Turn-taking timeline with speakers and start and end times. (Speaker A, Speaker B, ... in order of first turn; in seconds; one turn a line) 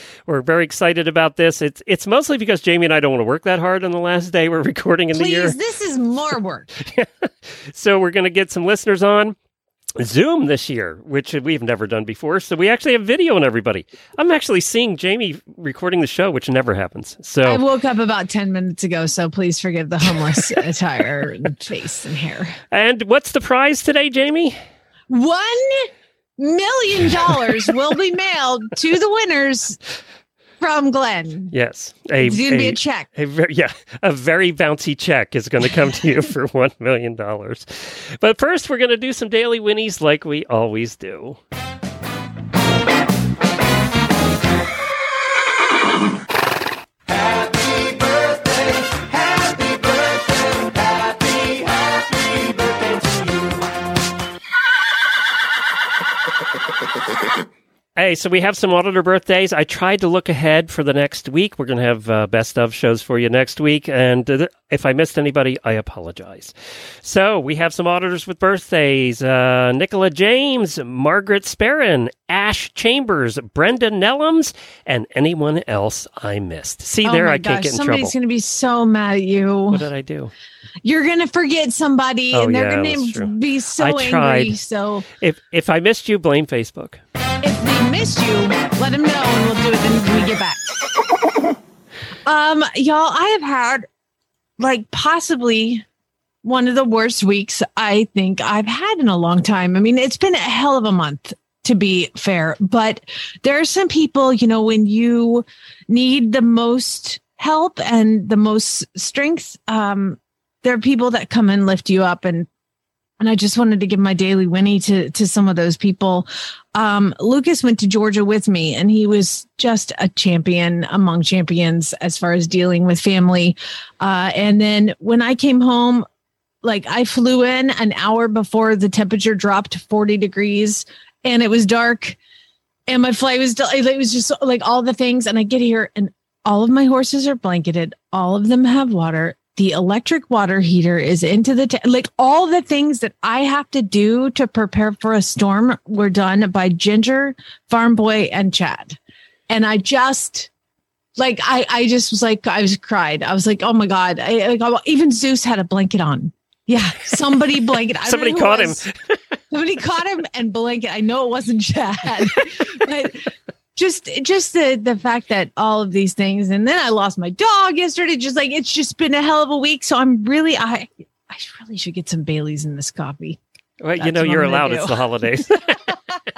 Speaker A: 0.3-5.6
Speaker B: 5.1-6.7
Speaker A: 6.8-9.4
Speaker A: 10.0-17.6
Speaker B: 17.4-22.6
Speaker A: 22.7-24.6
Speaker B: 25.1-29.8
Speaker B: 30.6-31.5
Speaker A: 31.5-41.4
Speaker B: 32.2-33.1
Speaker A: 58.0-78.1
Speaker B: 77.0-79.8
Speaker A: 79.7-80.3
Speaker B: 80.8-85.0
Speaker A: 82.3-84.6
Speaker A: 85.2-87.0
Speaker B: 87.4-90.6
Speaker B: 92.2-93.9
Speaker B: 94.6-95.8
Speaker B: 96.4-112.5
Speaker B: 113.2-126.1
Speaker B: 126.6-132.2
Speaker B: 132.9-149.0
Speaker B: 149.5-150.5
Speaker B: 151.2-158.8
Speaker A: 157.9-158.9
Speaker B: 159.5-173.4
Speaker A: 173.8-175.8
Speaker B: 174.0-175.0